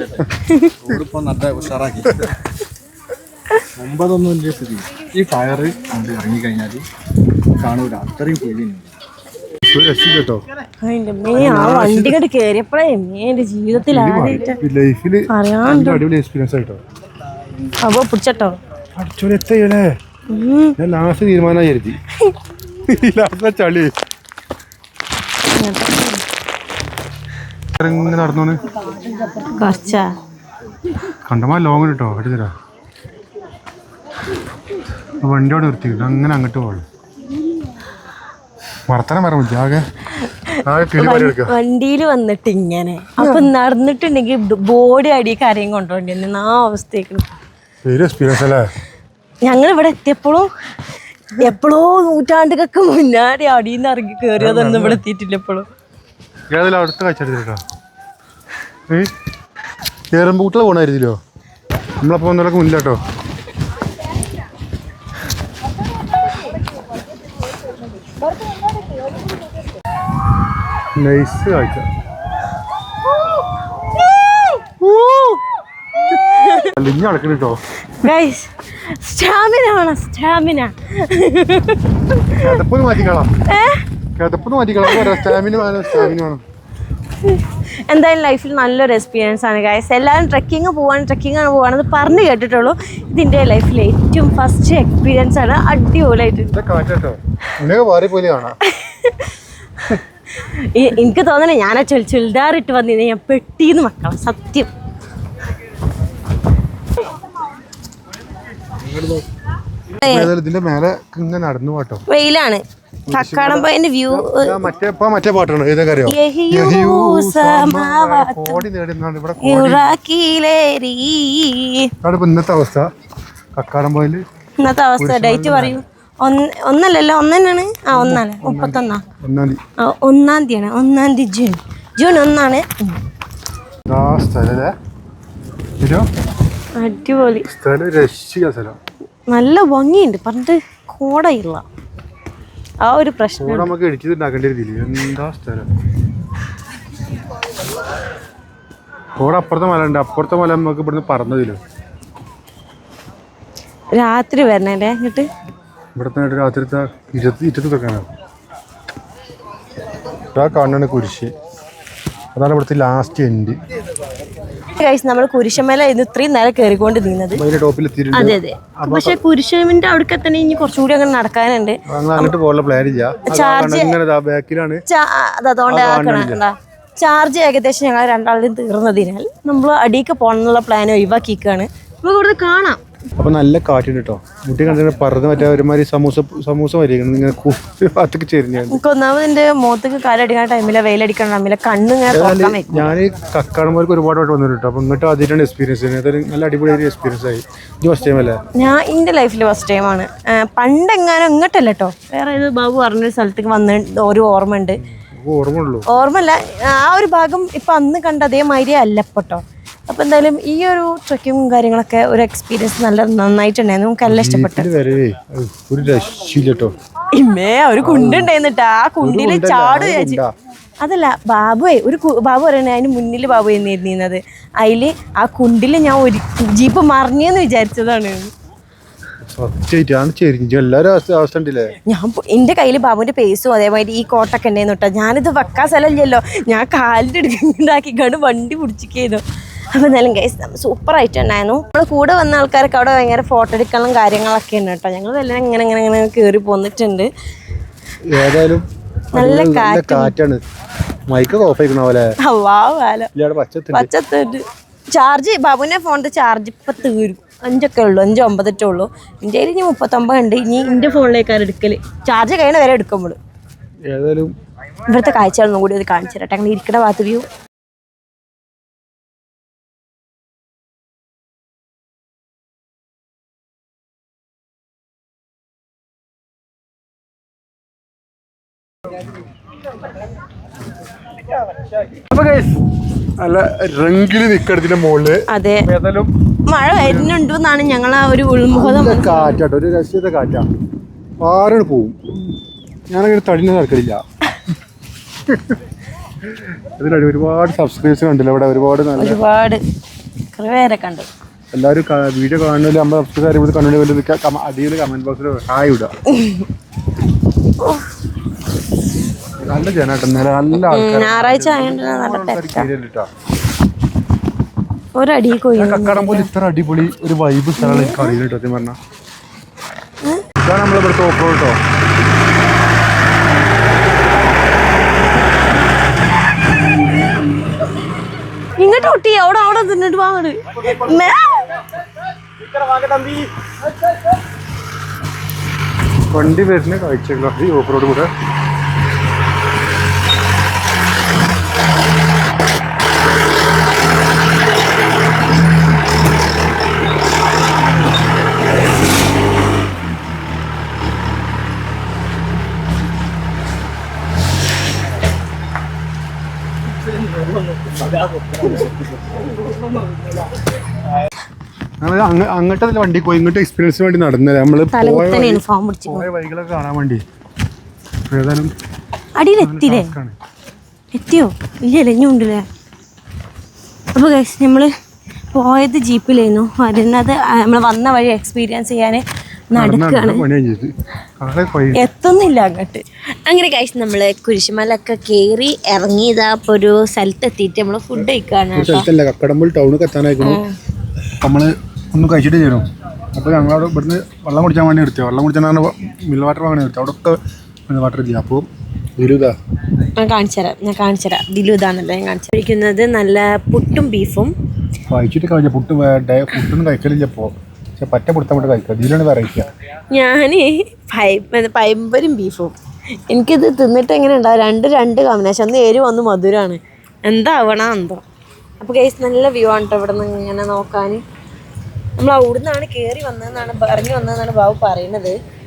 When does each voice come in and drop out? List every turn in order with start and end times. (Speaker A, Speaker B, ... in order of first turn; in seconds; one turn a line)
Speaker A: 0.5-0.8
Speaker B: 0.8-2.3
Speaker B: 3.8-6.8
Speaker B: 7.6-8.8
Speaker C: 9.7-10.4
Speaker A: 10.8-14.6
Speaker C: 11.3-12.2
Speaker C: 13.8-16.8
Speaker A: 15.3-16.0
Speaker A: 17.8-18.6
Speaker C: 18.9-19.9
Speaker A: 20.3-20.8
Speaker C: 20.8-22.0
Speaker C: 22.9-23.9
Speaker A: 25.5-26.2
Speaker C: 27.8-28.6
Speaker A: 28.9-30.1
Speaker C: 31.2-32.5
Speaker C: 35.2-36.8
Speaker C: 38.9-39.8
Speaker A: 40.2-47.3
Speaker C: 40.6-41.5
Speaker C: 47.8-48.7
Speaker A: 49.4-50.5
Speaker A: 51.3-55.6
Speaker C: 54.4-55.0
Speaker C: 56.5-57.6
Speaker C: 60.1-61.2
Speaker C: 62.0-63.0
Speaker A: 68.4-69.1
Speaker C: 71.0-71.8
Speaker A: 73.1-75.4
Speaker A: 76.0-76.7
Speaker C: 76.6-77.6
Speaker A: 78.0-82.6
Speaker C: 82.4-83.3
Speaker A: 83.5-83.8
Speaker C: 84.2-86.4
Speaker A: 84.8-86.2
Speaker A: 87.2-96.5
Speaker C: 96.5-98.6
Speaker A: 98.6-104.7
Speaker C: 108.8-109.2
Speaker A: 110.0-110.3
Speaker C: 110.0-112.0
Speaker A: 112.1-114.6
Speaker C: 113.1-119.9
Speaker A: 116.1-118.6
Speaker A: 119.4-121.9
Speaker C: 122.0-122.9
Speaker C: 123.5-124.2
Speaker A: 124.6-129.0
Speaker C: 125.0-125.8
Speaker C: 127.9-129.6
Speaker A: 129.8-133.0
Speaker C: 133.9-134.7
Speaker C: 135.8-136.1
Speaker A: 136.8-137.4
Speaker C: 137.4-138.8
Speaker A: 139.3-141.6
Speaker A: 142.8-143.7
Speaker C: 143.4-145.7
Speaker C: 149.2-151.6
Speaker A: 153.9-155.3
Speaker C: 156.0-158.0
Speaker C: 160.3-161.3
Speaker C: 162.3-163.6
Speaker A: 164.7-167.4
Speaker C: 167.3-169.2
Speaker A: 168.1-172.3
Speaker C: 171.9-174.8
Speaker A: 173.2-174.0
Speaker A: 174.9-182.8
Speaker C: 175.7-176.4
Speaker C: 183.2-188.8
Speaker A: 188.7-192.9
Speaker C: 192.1-198.4
Speaker A: 198.5-204.8
Speaker C: 204.8-205.9
Speaker A: 205.9-214.7
Speaker C: 214.1-216.7
Speaker A: 217.1-220.2
Speaker C: 217.8-218.3
Speaker C: 219.0-220.3
Speaker A: 220.8-228.3
Speaker C: 229.3-231.7
Speaker A: 231.9-247.1
Speaker C: 248.1-250.4
Speaker A: 249.1-250.1
Speaker C: 251.1-252.1
Speaker A: 252.2-253.1
Speaker C: 253.1-253.9
Speaker A: 253.7-263.2
Speaker C: 263.9-264.3
Speaker A: 264.9-267.3
Speaker C: 282.1-282.5
Speaker C: 283.2-286.1
Speaker A: 285.3-285.6
Speaker A: 286.5-289.4
Speaker C: 286.8-287.1
Speaker C: 288.5-290.5
Speaker C: 291.2-292.0
Speaker C: 292.9-294.0
Speaker C: 295.3-295.6
Speaker C: 296.3-299.2
Speaker A: 299.0-299.6
Speaker A: 300.3-301.1
Speaker C: 301.5-305.9
Speaker A: 306.1-306.5
Speaker A: 307.6-307.9
Speaker C: 309.4-313.1
Speaker A: 310.5-312.7
Speaker A: 314.9-316.3
Speaker C: 315.6-318.8
Speaker A: 317.6-318.2
Speaker C: 320.4-321.6
Speaker A: 326.5-327.2
Speaker A: 328.6-331.7
Speaker A: 332.7-333.2
Speaker C: 336.1-338.1
Speaker C: 361.8-367.0
Speaker A: 364.7-366.1
Speaker C: 368.1-368.5
Speaker A: 369.2-369.9
Speaker C: 369.4-370.1
Speaker A: 370.9-372.4
Speaker A: 373.9-374.7
Speaker A: 375.3-380.2
Speaker C: 379.6-381.8
Speaker A: 381.7-388.9
Speaker C: 388.5-390.4
Speaker A: 390.2-390.5
Speaker C: 391.2-397.1
Speaker C: 397.7-398.4
Speaker C: 399.0-399.3
Speaker A: 399.9-404.3
Speaker C: 404.9-409.5
Speaker A: 409.9-412.6
Speaker A: 413.1-418.0
Speaker A: 418.6-421.0
Speaker A: 422.0-425.2